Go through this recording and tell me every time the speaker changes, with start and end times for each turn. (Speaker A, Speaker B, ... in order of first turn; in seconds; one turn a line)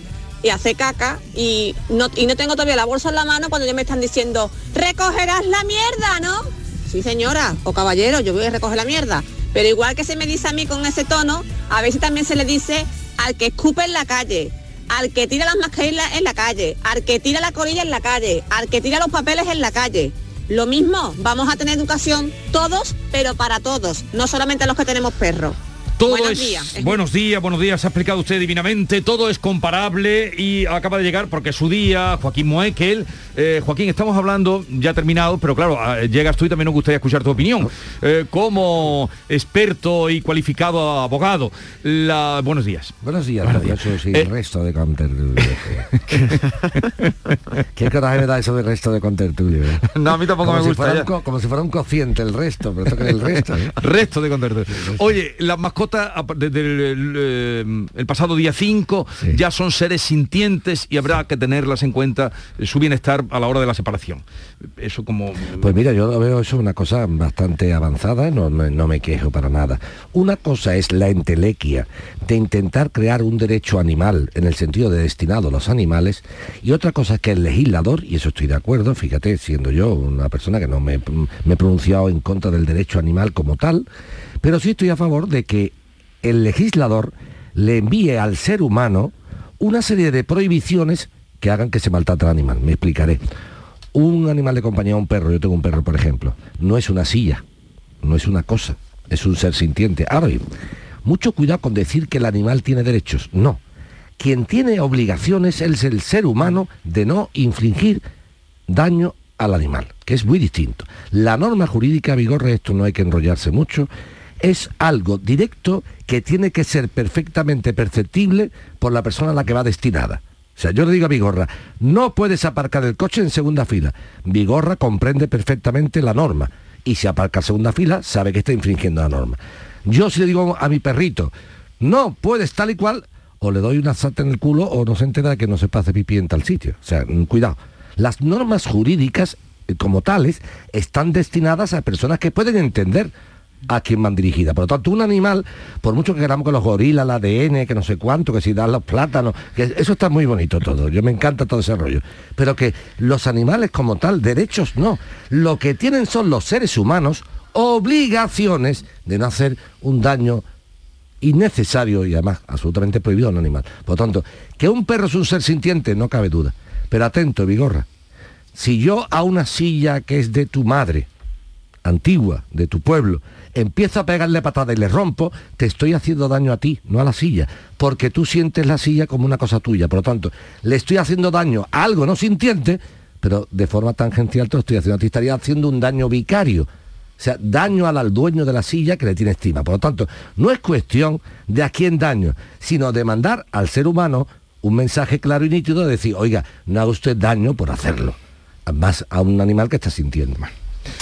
Speaker A: 0.4-27.0
Speaker B: 26.0-44.3
Speaker C: 43.0-46.0
Speaker B: 46.1-46.4
Speaker C: 47.8-49.8
Speaker B: 49.9-51.1
Speaker C: 50.4-53.7
Speaker B: 53.8-64.2
Speaker C: 54.8-55.0
Speaker B: 64.8-65.7
Speaker C: 65.6-83.9
Speaker C: 84.4-93.2
Speaker C: 93.9-97.4
Speaker C: 98.0-100.4
Speaker C: 101.0-103.6
Speaker C: 104.2-108.0
Speaker C: 108.7-113.9
Speaker C: 114.4-143.1
Speaker C: 143.7-160.4
Speaker C: 161.2-167.9
Speaker C: 168.6-171.1
Speaker C: 171.8-186.7
Speaker C: 187.2-200.5